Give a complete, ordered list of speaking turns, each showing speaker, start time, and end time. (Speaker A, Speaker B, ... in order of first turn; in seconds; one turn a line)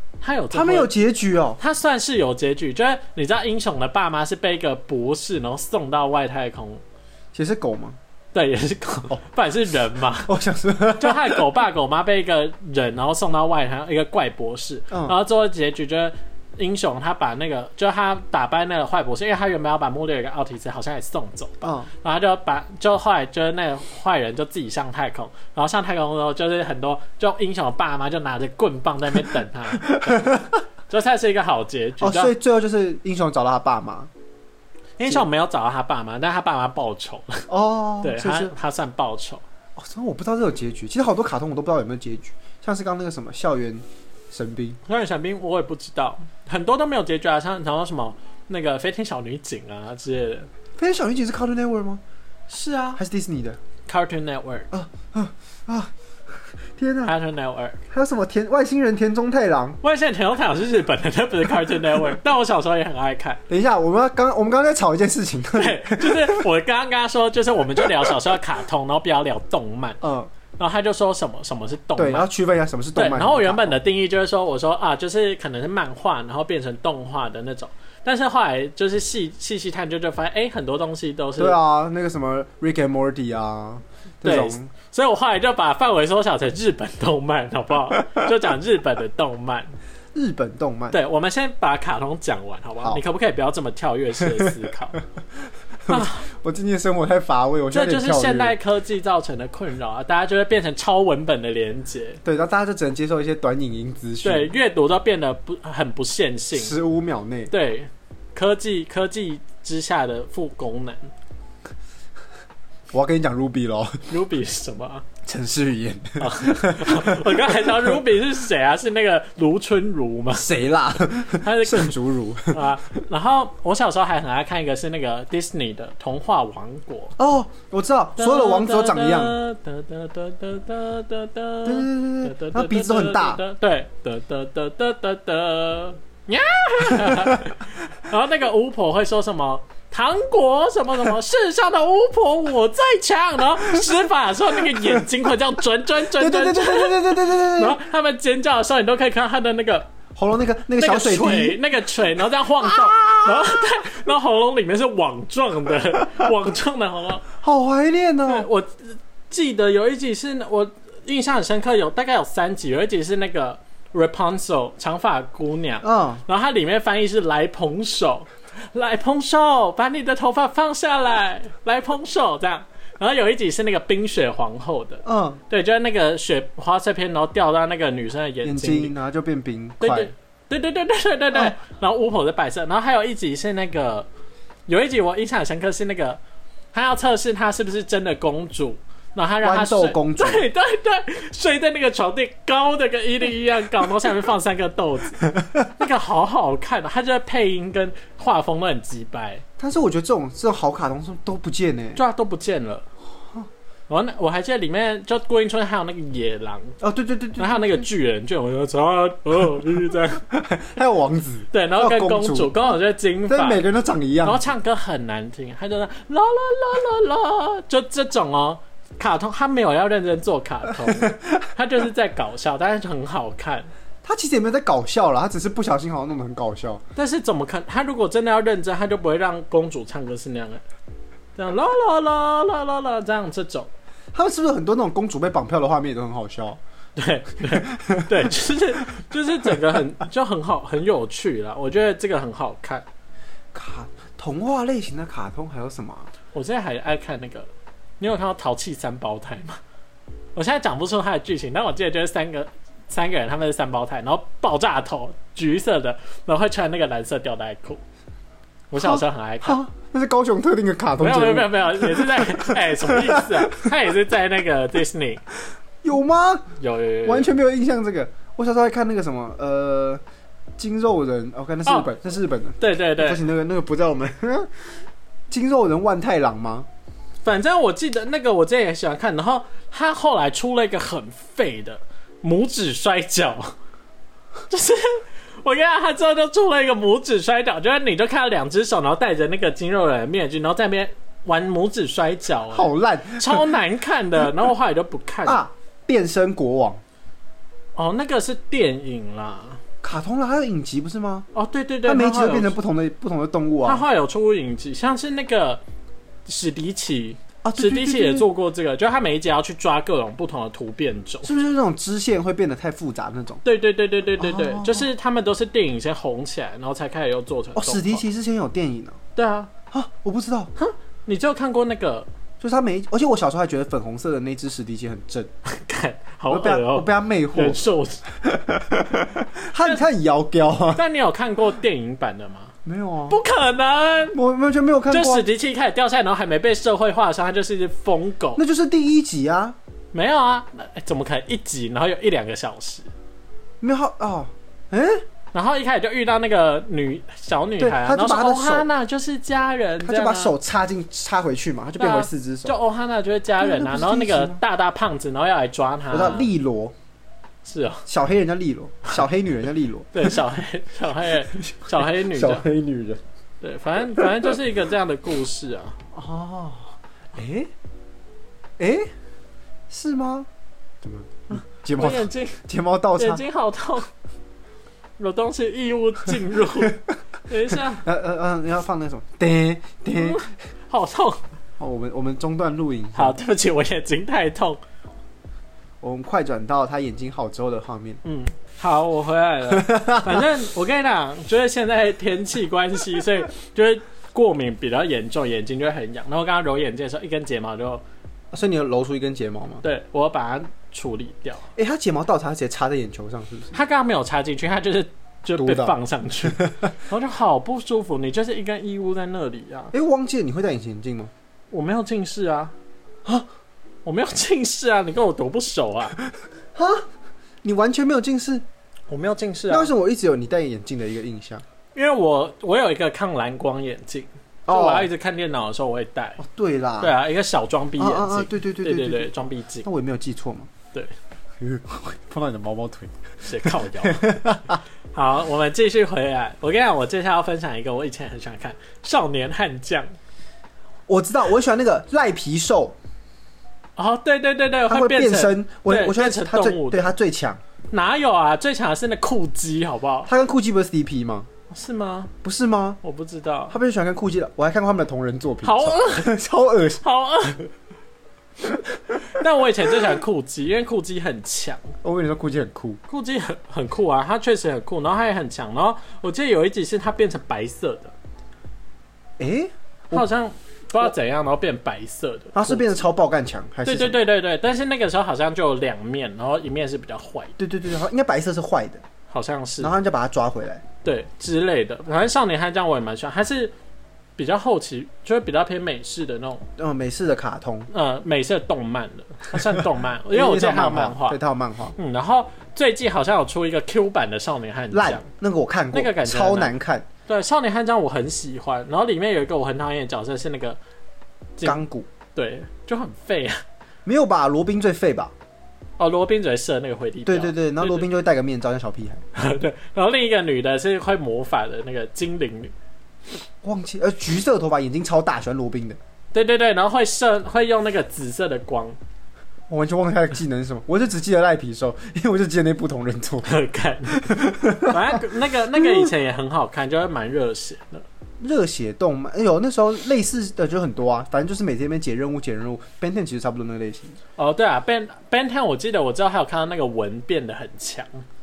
Speaker A: 0.2-0.9
Speaker B: 0.5-1.6
Speaker A: 1.6-6.8
Speaker B: 7.3-8.0
Speaker A: 8.3-10.3
Speaker B: 10.2-11.4
Speaker A: 11.0-32.3
Speaker B: 21.6-21.9
Speaker B: 29.8-30.6
Speaker B: 32.0-34.1
Speaker A: 35.0-37.5
Speaker B: 37.5-38.5
Speaker A: 38.0-39.4
Speaker B: 39.8-44.8
Speaker A: 44.9-50.5
Speaker B: 50.8-52.0
Speaker A: 52.5-53.0
Speaker B: 52.9-53.6
Speaker A: 53.9-54.7
Speaker B: 54.7-55.9
Speaker B: 56.8-57.1
Speaker A: 57.0-57.8
Speaker B: 57.9-59.8
Speaker A: 59.8-63.4
Speaker B: 63.5-66.5
Speaker A: 65.5-70.0
Speaker B: 67.8-68.1
Speaker B: 70.0-70.3
Speaker A: 70.6-72.3
Speaker B: 72.0-73.8
Speaker A: 73.0-81.6
Speaker B: 81.4-84.7
Speaker A: 84.2-89.7
Speaker B: 90.1-91.0
Speaker A: 90.9-95.0
Speaker B: 95.8-98.5
Speaker A: 95.9-96.3
Speaker A: 97.7-102.2
Speaker B: 102.2-104.5
Speaker A: 104.2-106.8
Speaker B: 106.5-107.5
Speaker A: 107.5-111.1
Speaker B: 112.9-114.0
Speaker A: 114.1-115.0
Speaker B: 115.2-118.0
Speaker A: 116.2-120.5
Speaker B: 120.3-122.6
Speaker A: 121.4-121.9
Speaker A: 122.5-127.1
Speaker B: 127.2-129.4
Speaker A: 128.2-149.9
Speaker B: 131.6-133.4
Speaker B: 136.9-137.5
Speaker B: 144.6-145.0
Speaker B: 146.1-147.8
Speaker B: 150.2-151.6
Speaker A: 150.8-157.2
Speaker B: 152.6-153.7
Speaker B: 157.3-158.5
Speaker A: 158.2-178.9
Speaker B: 165.8-166.2
Speaker B: 175.0-175.4
Speaker B: 178.4-180.1
Speaker A: 179.8-184.1
Speaker A: 184.7-186.2
Speaker A: 186.7-199.4
Speaker B: 189.4-190.4
Speaker B: 199.6-202.0
Speaker A: 201.9-202.8
Speaker A: 203.9-206.8
Speaker B: 206.8-207.8
Speaker A: 207.4-210.2
Speaker B: 210.3-212.7
Speaker A: 211.5-213.6
Speaker B: 213.3-214.4
Speaker A: 214.2-223.7
Speaker B: 220.8-221.4
Speaker B: 224.0-226.8
Speaker A: 226.9-230.6
Speaker A: 231.3-233.7
Speaker B: 234.1-236.6
Speaker A: 236.9-242.8
Speaker B: 237.5-238.3
Speaker B: 243.5-246.1
Speaker A: 246.3-247.5
Speaker A: 248.0-249.6
Speaker A: 250.3-257.8
Speaker A: 258.7-259.6
Speaker B: 258.7-263.7
Speaker A: 261.0-265.2
Speaker B: 265.8-266.5
Speaker A: 266.6-267.3
Speaker B: 267.0-270.0
Speaker B: 270.6-274.6
Speaker A: 272.6-273.2
Speaker B: 275.3-276.7
Speaker A: 277.2-283.5
Speaker A: 284.5-295.4
Speaker B: 292.5-293.5
Speaker B: 295.2-296.8
Speaker A: 297.8-299.6
Speaker B: 299.8-301.3
Speaker A: 301.3-302.6
Speaker B: 301.8-303.8
Speaker A: 303.6-305.6
Speaker A: 306.2-311.3
Speaker B: 307.4-308.2
Speaker B: 311.2-313.4
Speaker A: 313.4-318.0
Speaker B: 314.2-314.9
Speaker B: 317.5-319.0
Speaker A: 319.1-319.5
Speaker B: 319.7-320.5
Speaker A: 320.6-322.1
Speaker B: 322.4-325.3
Speaker A: 325.4-328.0
Speaker B: 326.3-327.6
Speaker B: 328.2-330.8
Speaker A: 330.7-332.5
Speaker B: 332.6-333.2
Speaker A: 333.1-334.1
Speaker B: 334.1-335.2
Speaker A: 334.9-338.4
Speaker B: 338.4-339.6
Speaker A: 339.9-342.9
Speaker B: 343.6-345.0
Speaker A: 345.3-350.3
Speaker B: 347.6-348.7
Speaker B: 349.8-352.6
Speaker A: 351.8-356.3
Speaker B: 353.4-354.4
Speaker B: 355.9-356.7
Speaker A: 357.4-357.9
Speaker B: 357.9-360.2
Speaker A: 359.9-362.4
Speaker B: 361.4-363.0
Speaker A: 363.4-365.8
Speaker B: 365.9-367.5
Speaker B: 368.6-368.9
Speaker B: 369.7-370.3
Speaker B: 370.8-373.2
Speaker A: 371.3-372.4
Speaker A: 373.0-373.9
Speaker A: 375.0-377.8
Speaker B: 377.5-380.2
Speaker A: 379.9-381.2
Speaker B: 381.6-383.2
Speaker A: 382.9-384.6
Speaker B: 385.8-388.0
Speaker A: 388.0-397.8
Speaker B: 389.5-390.2
Speaker B: 398.3-399.6
Speaker A: 399.6-401.4
Speaker B: 401.6-403.6
Speaker A: 403.5-409.7
Speaker B: 405.4-406.5
Speaker B: 409.7-411.1
Speaker A: 411.5-412.5
Speaker A: 413.8-416.0
Speaker B: 416.5-416.9
Speaker B: 417.4-418.4
Speaker A: 418.9-419.7
Speaker B: 419.5-421.4
Speaker A: 421.7-426.2
Speaker B: 424.5-424.9
Speaker B: 426.2-426.9
Speaker A: 426.8-429.7
Speaker B: 427.8-430.5
Speaker B: 431.4-434.6
Speaker A: 433.2-434.2
Speaker A: 434.9-439.9
Speaker B: 440.9-442.8
Speaker A: 443.8-446.9
Speaker B: 444.7-447.4
Speaker A: 447.7-450.1
Speaker B: 450.1-451.3
Speaker A: 451.5-452.1
Speaker B: 452.2-452.8
Speaker A: 452.8-453.6
Speaker B: 453.5-456.8
Speaker A: 455.4-456.1
Speaker A: 456.8-457.5
Speaker A: 459.0-461.6
Speaker B: 461.8-462.8
Speaker A: 462.9-467.9
Speaker B: 469.2-470.1
Speaker A: 469.9-472.7
Speaker B: 472.3-474.0
Speaker A: 473.6-477.3
Speaker B: 477.4-478.8
Speaker A: 479.1-479.7
Speaker B: 479.6-480.6
Speaker A: 480.8-483.5
Speaker A: 484.2-486.4
Speaker B: 486.6-487.7
Speaker A: 487.7-491.2
Speaker B: 490.1-491.8
Speaker A: 491.8-495.1
Speaker B: 494.7-496.9
Speaker A: 495.7-496.5
Speaker A: 497.1-500.6
Speaker B: 501.4-501.9
Speaker A: 502.1-503.4
Speaker B: 503.8-505.1
Speaker A: 505.8-507.9
Speaker B: 507.0-509.0
Speaker A: 509.1-512.5
Speaker B: 513.4-515.8
Speaker A: 516.1-518.8
Speaker B: 519.5-523.3
Speaker A: 523.2-524.1
Speaker B: 523.9-525.0
Speaker A: 524.6-527.8
Speaker B: 525.5-525.9
Speaker B: 528.2-534.0
Speaker A: 534.2-538.0